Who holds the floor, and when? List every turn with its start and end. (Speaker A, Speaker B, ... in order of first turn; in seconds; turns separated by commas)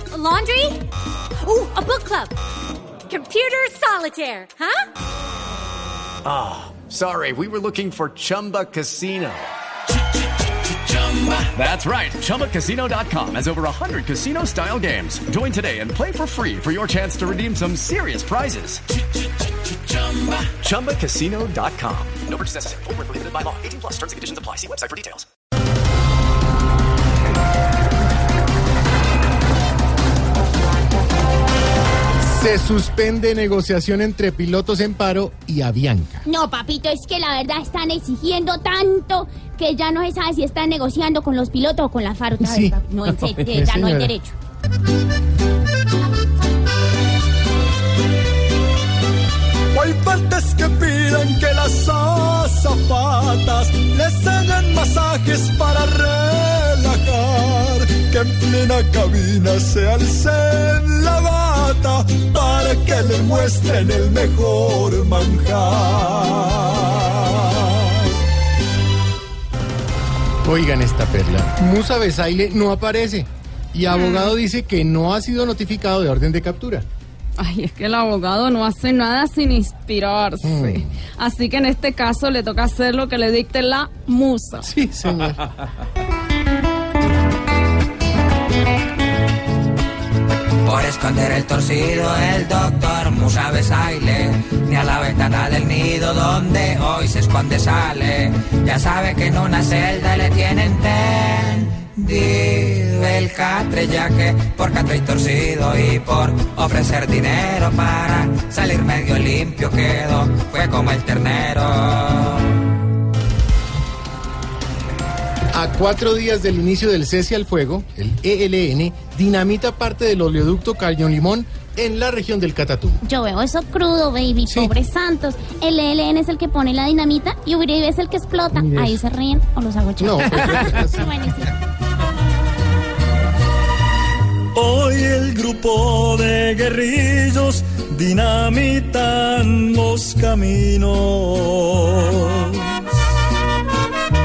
Speaker A: 0.1-0.8, Speaker A: 1.4-2.3, Speaker A: 3.1-4.9, Speaker B: 6.2-9.5, Speaker B: 10.7-18.8, Speaker B: 19.9-25.2, Speaker C: 32.2-36.2, Speaker D: 36.2-44.3, Speaker C: 42.4-44.1, Speaker E: 49.7-67.9, Speaker C: 70.4-76.8, Speaker F: 73.9-74.3, Speaker F: 77.4-84.7, Speaker C: 80.4-80.9, Speaker C: 84.6-85.4, Speaker G: 90.6-112.5, Speaker C: 115.5-123.0, Speaker D: 123.0-131.5, Speaker C: 124.5-124.7, Speaker C: 128.5-129.0, Speaker C: 130.0-131.1, Speaker E: 134.5-143.0